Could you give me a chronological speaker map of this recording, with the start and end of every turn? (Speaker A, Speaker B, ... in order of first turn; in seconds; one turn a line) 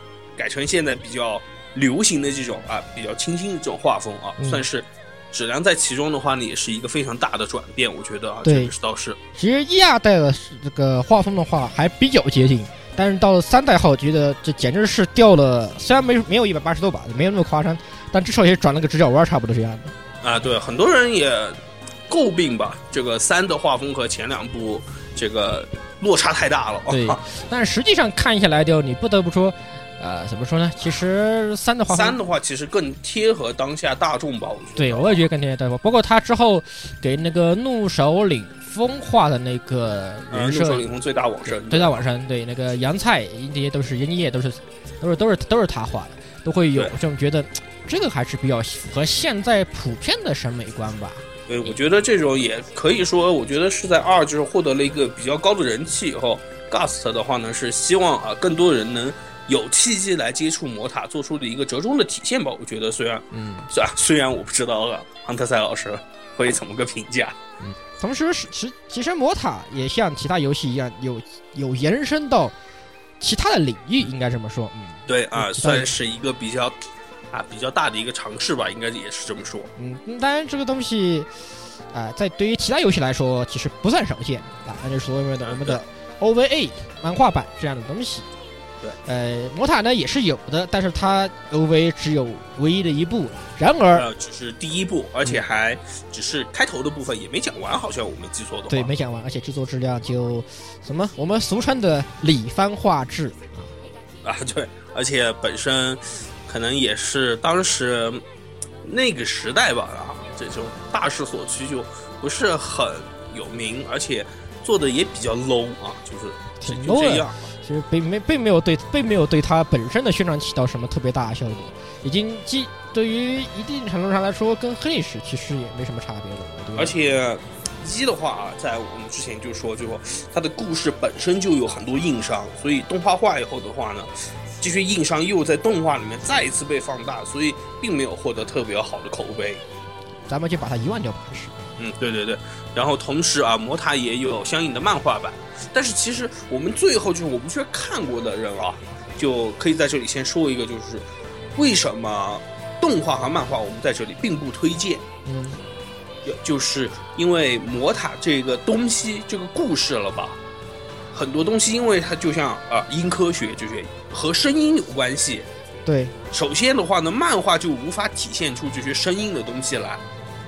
Speaker A: 0.4-9.2
Speaker B: 4.4-4.6
Speaker B: 8.4-8.7
Speaker B: 9.3-19.9
Speaker A: 20.2-21.6
Speaker A: 22.1-27.2
Speaker B: 26.9-32.2
Speaker A: 31.9-35.2
Speaker B: 34.8-40.9
Speaker A: 40.3-42.0
Speaker B: 41.5-51.2
Speaker A: 51.5-67.3
Speaker B: 63.3-63.7
Speaker B: 67.6-72.5
Speaker B: 73.2-75.9
Speaker A: 75.1-76.8
Speaker A: 77.3-79.7
Speaker B: 79.8-81.3
Speaker B: 81.9-88.2
Speaker A: 85.4-85.8
Speaker B: 89.0-94.0
Speaker A: 93.9-98.9
Speaker B: 98.7-103.7
Speaker A: 104.2-108.2
Speaker A: 108.8-117.5
Speaker B: 116.6-126.9
Speaker A: 126.8-139.6
Speaker B: 140.3-141.5
Speaker A: 141.8-151.0
Speaker A: 151.6-155.0
Speaker B: 155.2-155.6
Speaker A: 156.2-160.4
Speaker A: 161.1-165.5
Speaker B: 165.8-166.1
Speaker A: 166.3-170.0